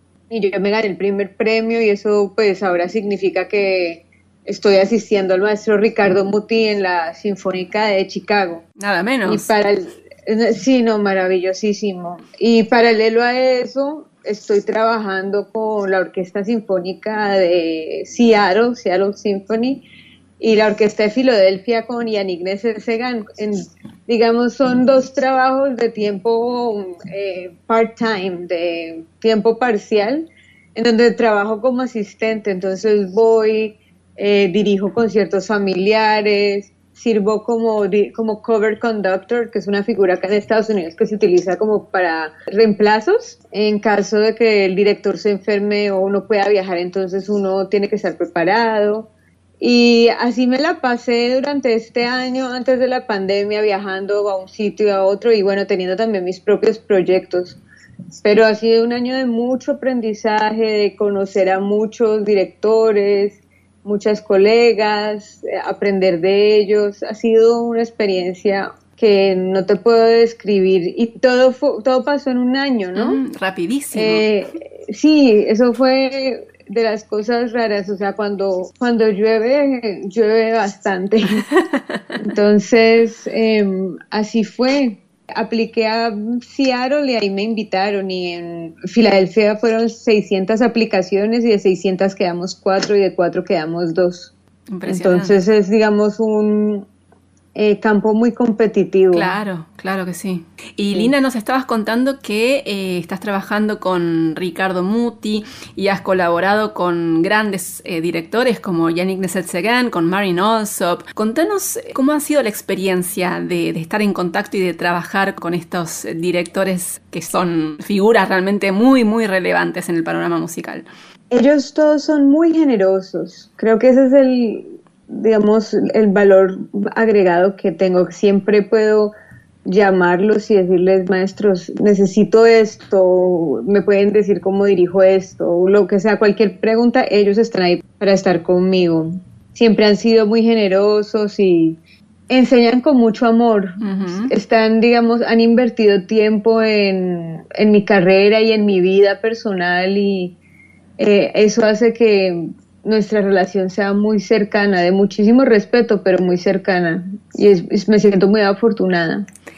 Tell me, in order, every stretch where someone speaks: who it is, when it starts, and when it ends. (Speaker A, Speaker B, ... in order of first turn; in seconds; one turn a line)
Speaker A: 0.3-8.6
Speaker B: 8.8-9.5
Speaker A: 9.2-19.8
Speaker A: 20.4-49.1
Speaker A: 49.6-57.6
Speaker A: 58.2-73.2
Speaker B: 73.0-74.2
Speaker A: 73.9-81.4
Speaker B: 81.5-82.0
Speaker A: 82.2-94.3
Speaker B: 94.7-95.3
Speaker A: 94.9-96.8
Speaker A: 97.5-99.3
Speaker B: 99.1-120.9
Speaker A: 121.3-129.1
Speaker A: 129.7-141.8
Speaker A: 142.3-150.3
Speaker B: 143.8-144.3
Speaker A: 151.0-159.2